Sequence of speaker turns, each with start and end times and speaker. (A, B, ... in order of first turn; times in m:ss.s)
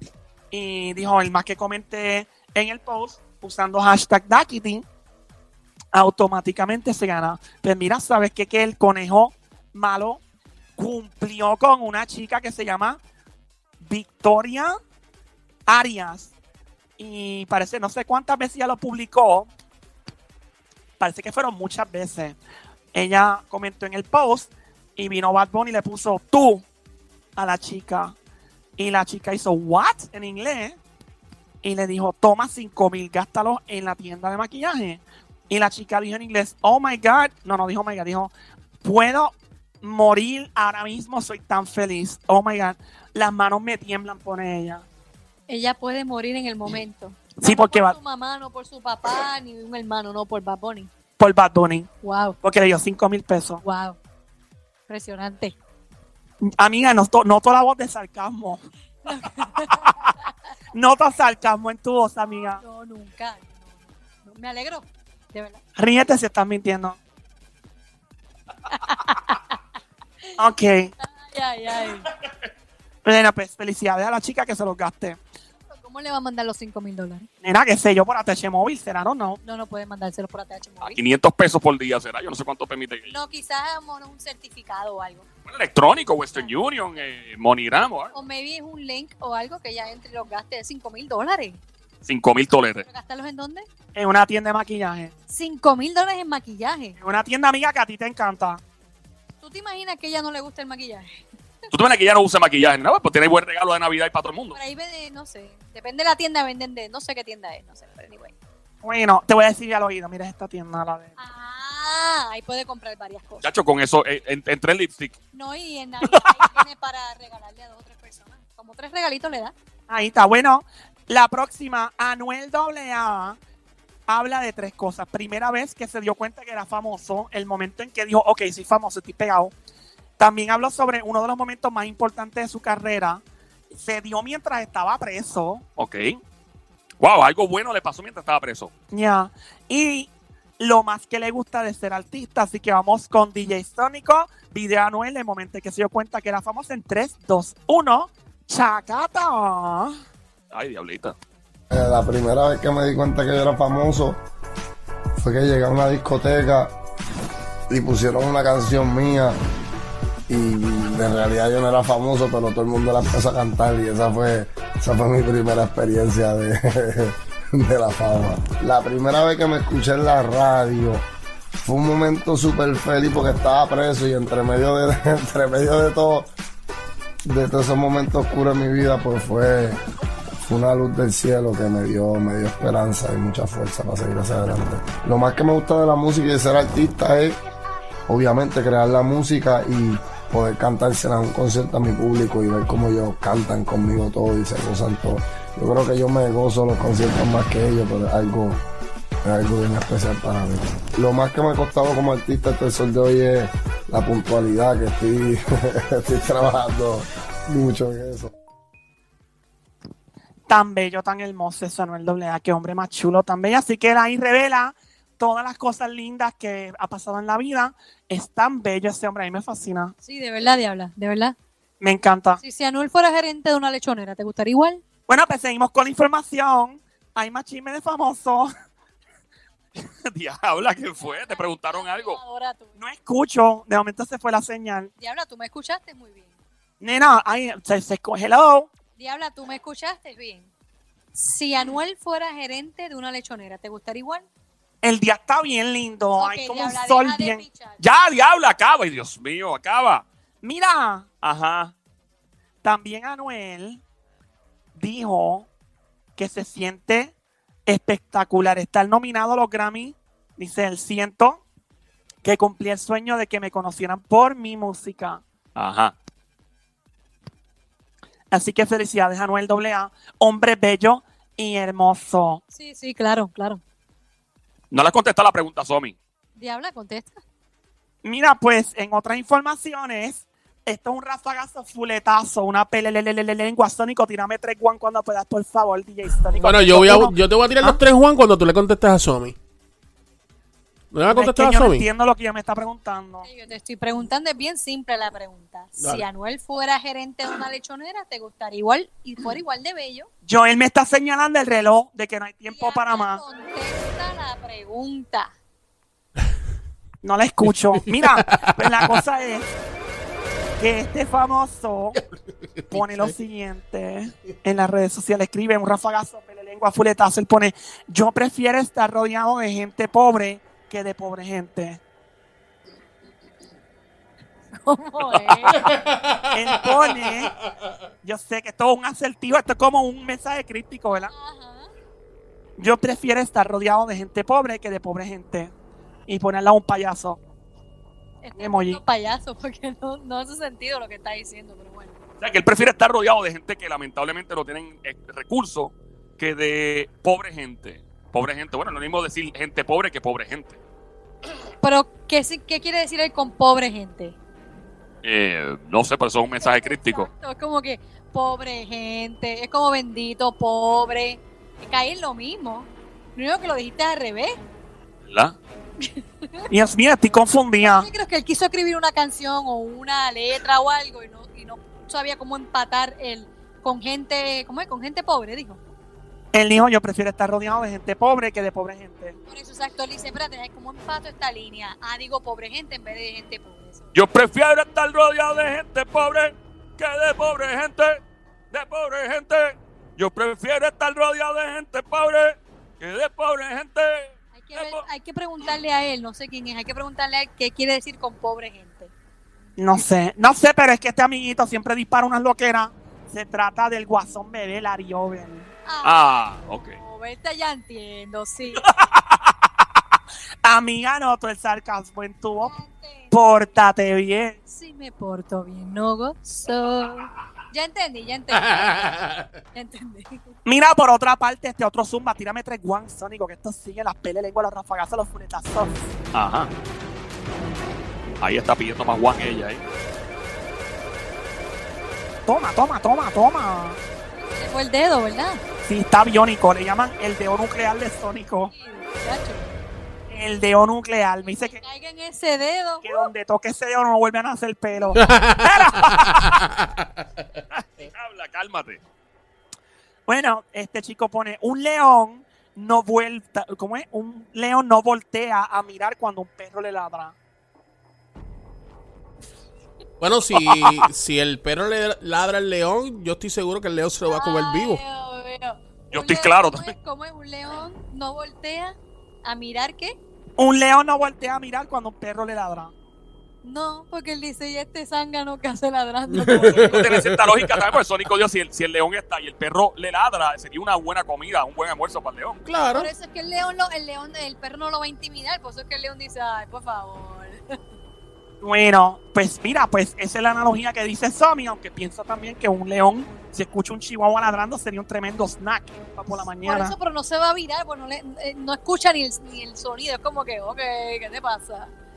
0:00.5-0:04.8 A
0:05.9-0:10.2 A
0:10.8-0:13.0 A
0:13.8-0:14.8 A
0:15.7-0:16.3 A
0:17.0-0:19.5 A
0:21.0-0:22.4 A
0:22.9-0:26.6 A
0:27.4-0:28.2 A
0:28.8-0:30.8 A
0:31.6-0:44.8 A
0:45.5-0:50.9 B
0:47.4-0:48.0 A
0:51.2-0:51.9 A
0:52.0-0:52.4 B
0:52.4-0:53.6 A
0:53.6-0:54.0 B
0:54.9-0:55.6 B
0:56.4-0:58.6 A
0:59.1-1:00.3 B
1:00.7-1:02.6 A
1:02.4-1:05.6 B
1:05.8-1:07.0 A
1:08.7-1:09.6 B
1:10.4-1:10.9 A
1:11.0-1:12.1 B
1:13.0-1:15.2 A
1:15.7-1:17.3 B
1:17.4-1:19.4 A
1:19.4-1:21.0 B
1:20.8-1:23.1 C
1:23.1-1:25.3 B
1:25.5-1:28.1 C
1:28.1-1:31.6 B
1:32.0-1:32.9 C
1:32.8-1:33.7 B
1:34.0-1:35.1 A
1:35.3-1:37.0 B
1:37.0-1:38.6 A
1:39.4-1:41.3 B
1:41.7-1:44.6 C
1:44.5-1:48.3 B
1:48.8-1:51.1 A
1:51.2-1:53.4 B
1:53.4-1:55.2 C
1:55.3-1:59.5 B
1:59.9-2:03.4 A
2:04.1-2:09.5 A
2:10.2-2:15.6 A
2:15.8-2:16.2 C
2:17.0-2:18.7 C
2:18.9-2:29.9 A
2:30.5-2:31.2 C
2:31.7-2:34.2 D
2:35.2-2:36.8 D
2:37.7-2:39.4 D
2:40.3-2:51.0 D
2:51.6-2:56.3 D
2:57.3-2:59.8 D
3:00.4-3:07.4 D
3:08.1-3:18.6 D
3:19.2-3:28.3 D
3:30.5-3:39.9 A
3:40.0-3:41.4 B
3:41.8-3:42.4 A
3:42.4-3:44.8 B
3:45.1-3:48.5 A
3:50.1-3:52.2 C
3:51.0-3:52.8 B
3:52.8-3:54.9 A
3:55.0-3:56.4 B
3:56.8-3:58.7 A
3:59.0-4:00.5 B
4:01.1-4:04.3 B
4:04.8-4:07.4 A
4:06.2-4:07.8 B
4:07.8-4:10.0 C
4:10.4-4:11.1 A
4:11.2-4:11.7 C
4:12.6-4:13.8 A
4:14.8-4:15.5 A
4:16.2-4:17.1 A
4:17.7-4:21.4 A
4:22.2-4:25.2 A
4:25.6-4:26.0 C
4:28.3-4:32.4 A
4:32.5-4:33.6 B
4:34.7-4:36.0 C
4:36.4-4:37.2 B
4:38.0-4:47.8 A
4:46.4-4:49.4 E
4:50.9-4:51.9 E
4:51.1-4:53.3 A
4:53.2-5:00.1 B
4:55.8-4:56.0 E
5:00.2-5:03.2 A
5:02.5-5:05.3 B
5:07.0-5:09.5 A
5:07.5-5:09.0 E
5:10.6-5:12.0 A
5:12.6-5:13.1 E
5:12.7-5:21.8 A
5:24.6-5:25.7 B
5:25.5-5:27.7 E
5:26.3-5:27.3 A
5:28.0-5:31.1 A
5:31.0-5:31.7 B
5:32.6-5:35.5 A
5:36.1-5:37.2 A
5:38.2-5:42.0 B
5:38.4-5:38.8 A
5:42.2-5:50.6 C
5:51.6-5:54.2 B
5:55.0-5:57.1 C
5:56.4-6:04.4 B
6:05.1-6:05.4 C
6:05.8-6:06.5 B
6:06.5-6:07.9 A
6:07.6-6:15.6 B
6:16.3-6:19.2 A
6:19.3-6:23.9 B
6:23.9-6:28.0 C
6:28.5-6:34.8 C
6:34.3-6:38.9 B
6:39.6-6:45.5 A
6:45.7-6:48.6 B
6:45.8-6:46.8 C
6:50.4-6:52.5 A
6:52.4-6:53.2 B
6:53.1-6:54.4 A
6:54.5-7:00.3 B
6:58.3-6:59.4 E
7:00.5-7:05.9 A
7:06.1-7:06.5 C
7:08.2-7:09.6 C
7:12.3-7:13.8 A
7:14.1-7:15.4 B
7:15.6-7:18.5 A
7:18.5-7:19.5 B
7:20.1-7:21.6 A
7:21.2-7:23.1 B
7:22.8-7:26.3 A
7:25.0-7:27.0 E
7:27.5-7:28.8 C
7:30.1-7:37.2 A
7:40.0-7:44.8 E
7:40.6-7:40.8 C
7:44.1-7:50.0 B
7:45.9-7:46.7 C
7:50.4-7:52.7 A
7:53.4-7:56.8 B
7:56.1-7:57.2 E
7:56.5-8:02.4 C
8:02.4-8:02.9 E
8:02.8-8:07.6 B
8:08.4-8:16.7 A
8:16.4-8:21.7 B